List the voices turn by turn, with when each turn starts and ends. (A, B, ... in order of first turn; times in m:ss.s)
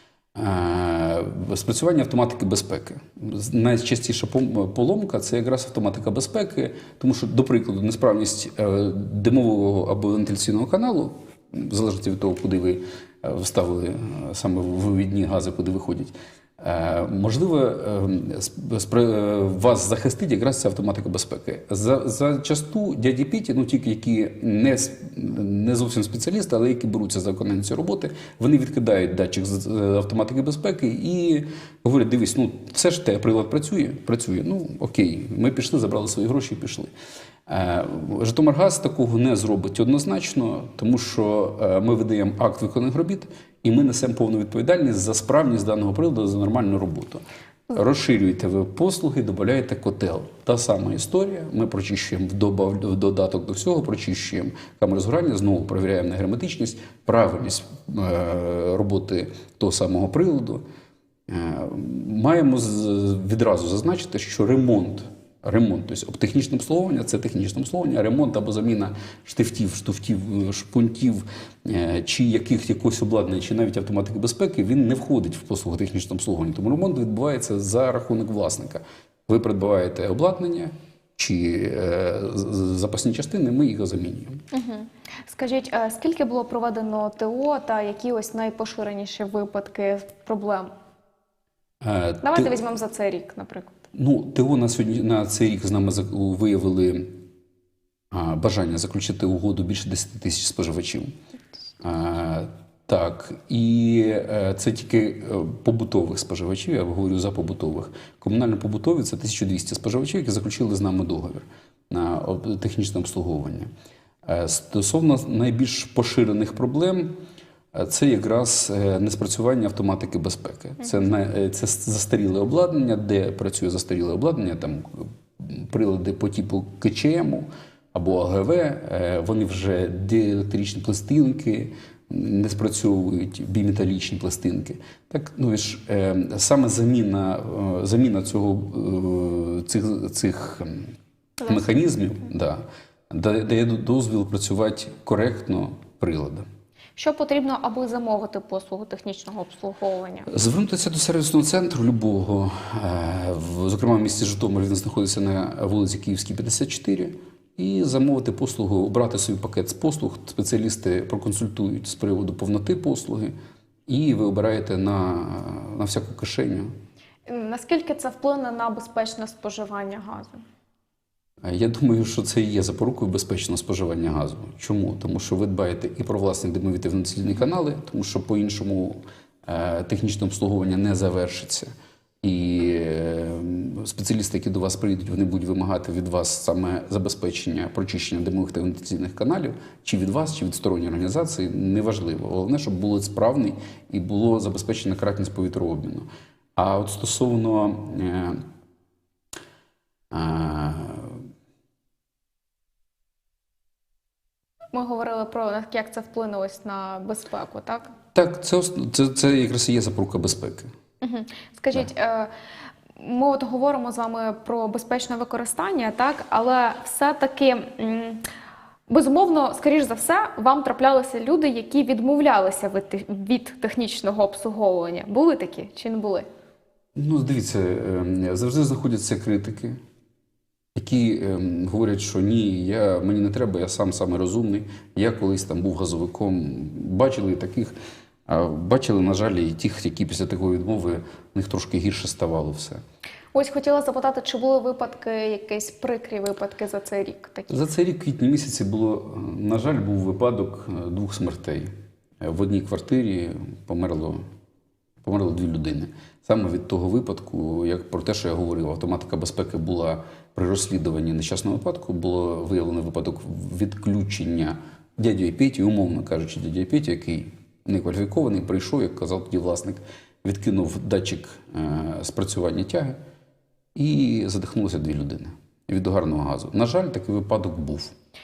0:00.4-0:36.9 A
0:37.5-1:00.6 A
1:01.3-1:24.4 A
1:24.5-1:30.7 B
1:31.8-1:32.6 A
1:32.2-1:33.8 B
1:33.9-1:37.2 A
1:38.1-1:41.1 A
1:41.8-1:53.7 A
1:54.2-1:57.1 A
1:57.7-2:20.9 A
2:21.4-2:26.4 A
2:27.0-2:30.3 B
2:30.3-2:43.3 A
2:43.9-2:46.7 A
2:47.3-2:50.4 B
2:51.4-3:01.7 A
3:02.2-3:18.4 A
3:20.1-3:21.2 A
3:24.7-3:27.9 B
3:28.2-3:30.7 A
3:31.0-3:32.3 B
3:33.0-3:38.2 B
3:38.9-3:46.3 B
3:47.0-3:49.8 A
3:50.8-3:57.7 A
3:58.3-4:02.8 A
4:03.3-4:07.6 B
4:07.5-4:11.7 A
4:12.2-4:14.2 A
4:15.0-4:33.0 A
4:33.8-4:37.9 A